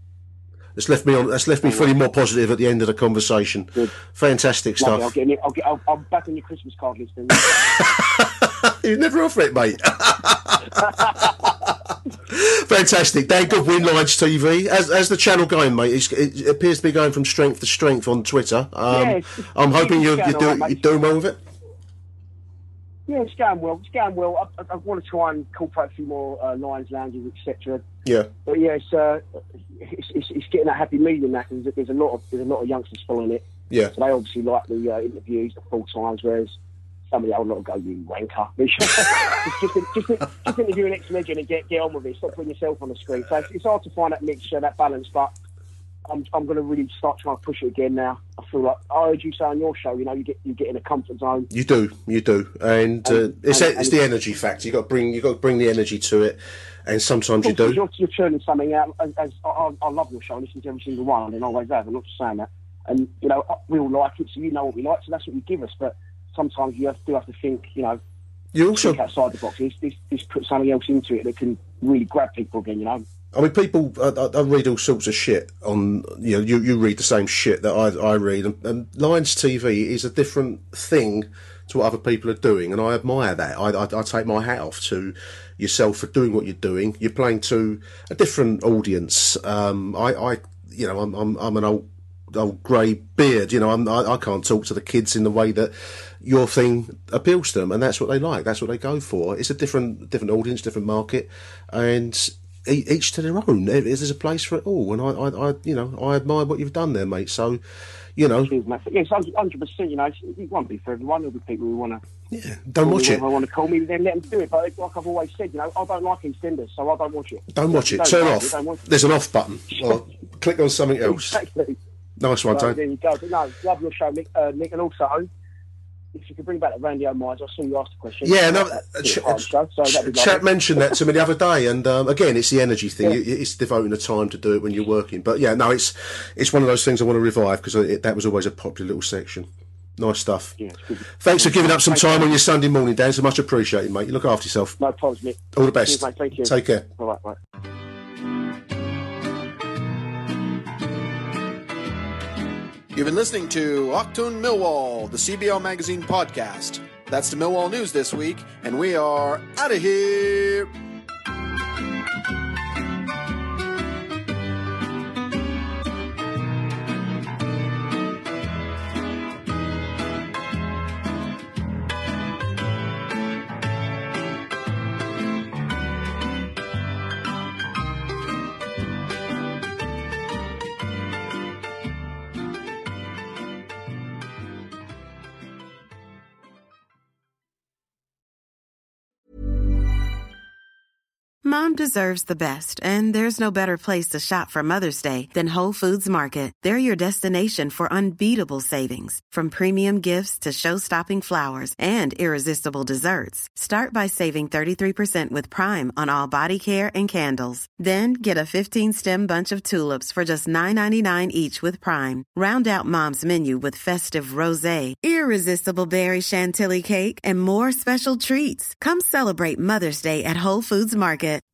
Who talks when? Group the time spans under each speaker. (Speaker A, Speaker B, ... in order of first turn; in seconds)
Speaker A: 0.8-5.1, 7.5-11.7, 12.3-21.4, 51.5-57.8, 68.5-69.0, 73.3-107.6, 108.2-108.5, 112.3-113.2, 117.5-121.4, 122.2-122.8, 128.2-139.5, 140.0-140.6, 141.2-144.8, 145.6-146.9
Speaker B: 1.6-1.9, 4.8-7.6, 18.9-20.8, 23.1-27.8, 28.5-29.2, 29.8-36.5, 37.1-45.3, 46.1-51.5, 53.0-54.0, 57.4-68.0, 68.7-73.0, 108.5-112.0, 112.8-118.8, 119.7-120.1, 121.0-121.8, 122.5-125.3, 126.1-130.9, 140.6-142.3, 144.8-147.4
Speaker C: 152.9-160.7
Speaker D: 191.4-221.4